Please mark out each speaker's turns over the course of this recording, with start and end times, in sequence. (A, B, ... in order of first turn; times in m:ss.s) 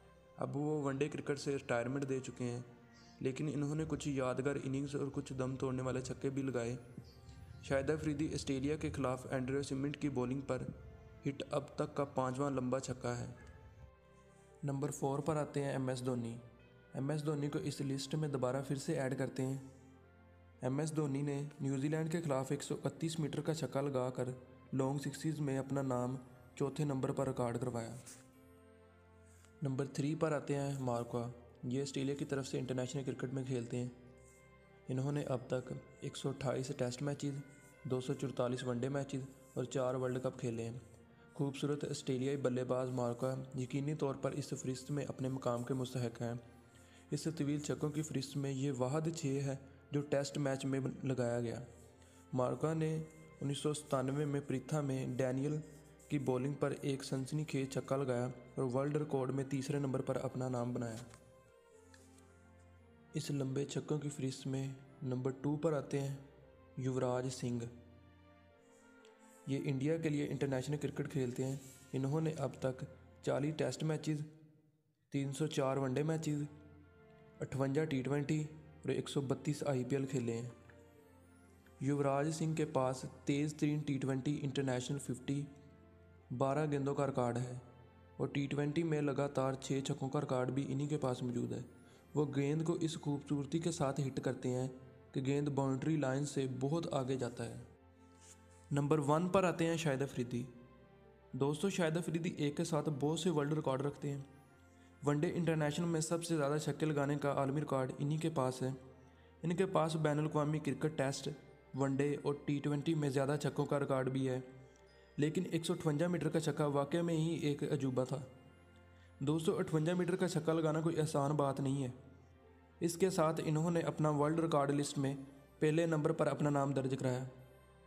0:00.4-0:06.8 A
0:07.6-0:10.7 A
0:11.2-0:13.3 A
0:14.6-0:16.4 A
0:16.9-0:19.6 A
0:20.6-0:28.0 A
0:29.6-0:34.0 A
0:34.9-0:40.8 A
0:41.3-0:46.4 A
0:47.1-0:51.6 A
0:52.3-1:01.1 A
1:03.1-1:06.2 A
1:06.8-1:07.7 A
1:09.5-1:14.3 A
1:15.1-1:16.5 A
1:17.4-1:20.5 A
1:21.8-1:25.5 A
1:26.3-1:27.6 A
1:28.2-1:37.6 A
1:38.7-1:40.5 A
1:41.3-1:44.2 A
1:45.0-1:48.8 A
1:49.4-1:54.4 A
1:55.2-1:58.3 A
1:59.2-2:02.0 A
2:02.8-2:07.3 A